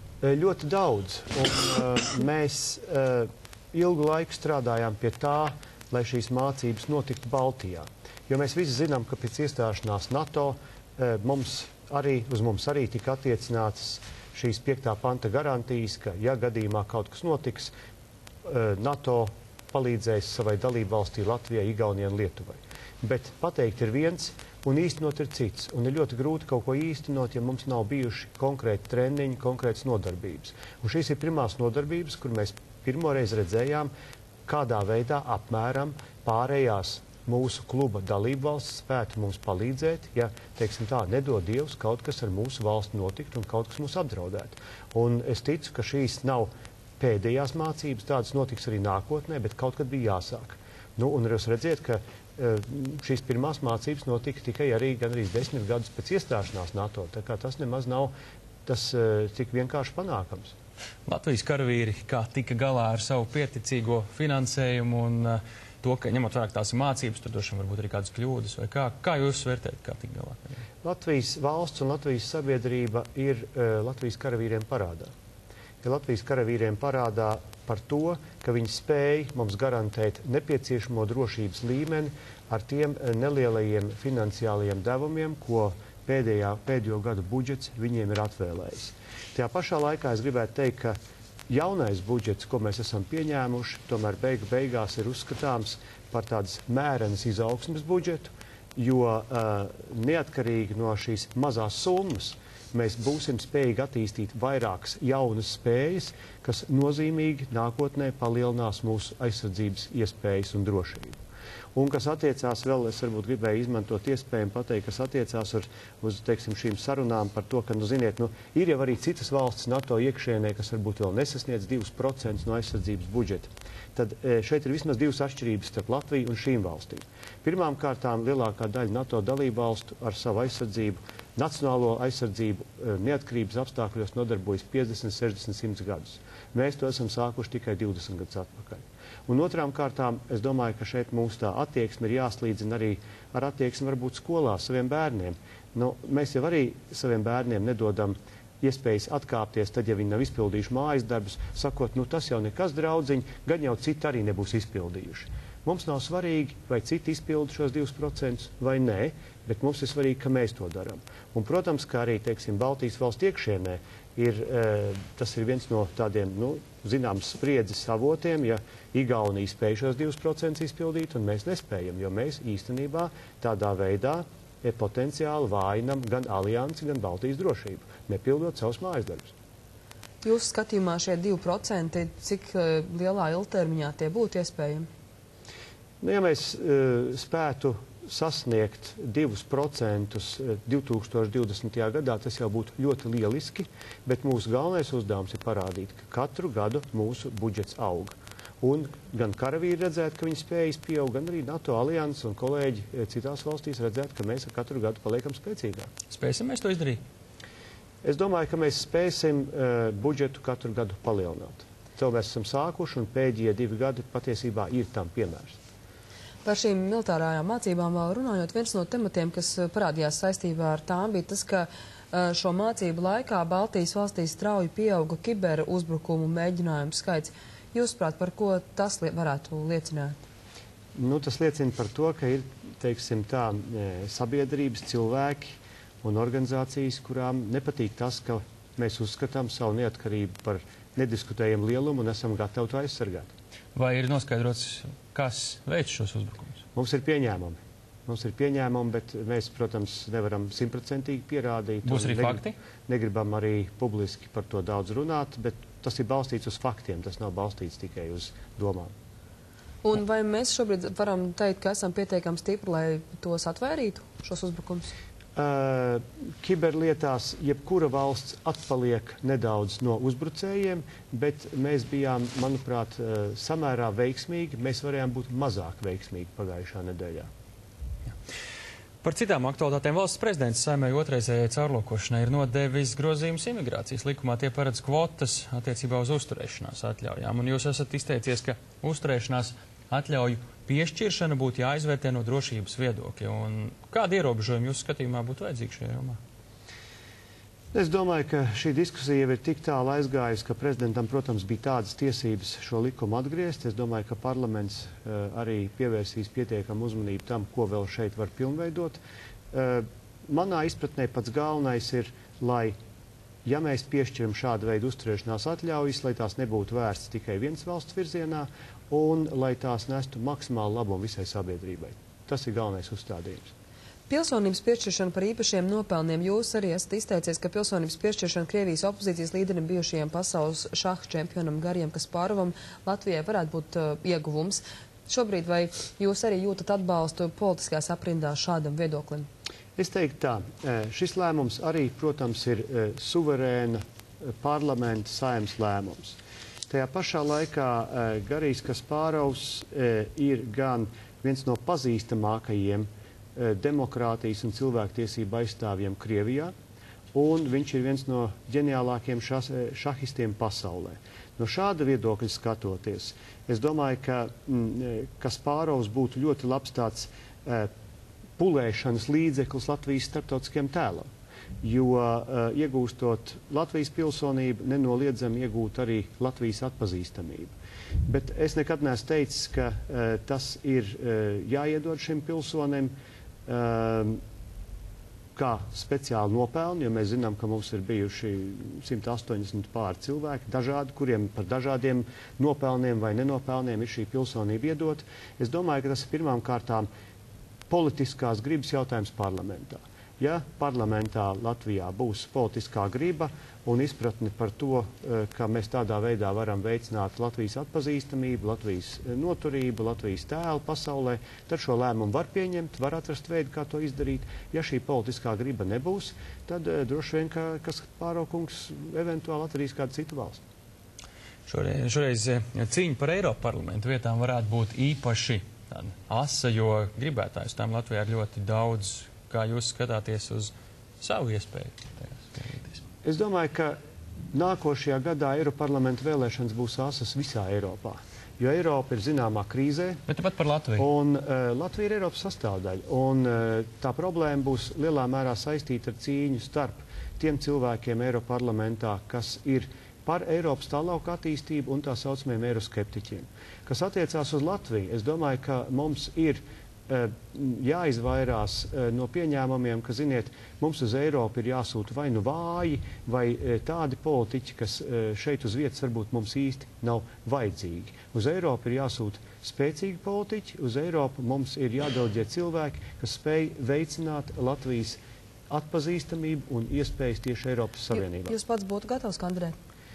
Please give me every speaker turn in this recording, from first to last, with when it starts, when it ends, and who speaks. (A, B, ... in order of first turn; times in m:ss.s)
0:00.2-0:17.7 A
0:18.4-0:33.9 A
0:34.4-0:58.1 A
0:58.6-1:00.5 A
1:01.0-1:10.6 B
1:10.8-1:15.1 A
1:15.8-1:31.0 A
1:31.5-1:51.2 A
1:51.7-2:59.3 A
3:00.2-3:04.9 C
3:06.0-3:25.9 A
3:26.1-3:27.0 B
3:28.0-3:35.6 A
3:36.4-3:50.2 C
3:50.9-4:03.3 A
4:03.7-4:06.6 B
4:06.7-4:18.9 A
4:11.8-4:12.5 B
4:19.8-4:24.9 C
4:25.4-4:37.3 A
4:39.0-4:56.2 B
4:57.7-5:09.0 A
5:09.5-5:12.8 A
5:13.4-5:23.5 A
5:24.1-5:39.3 C
5:39.8-5:46.2 A
5:46.7-5:56.5 A
5:57.1-6:07.7 A
6:08.4-6:11.1 A
6:11.6-6:17.5 A
6:18.0-6:22.9 A
6:23.4-6:24.2 A
6:25.3-6:36.9 A
6:37.7-7:00.4 A
7:01.5-7:12.8 B
7:13.0-7:13.8 A
7:14.3-7:20.0 A
7:20.1-7:20.8 B
7:20.8-7:58.3 A
7:58.2-7:59.5 C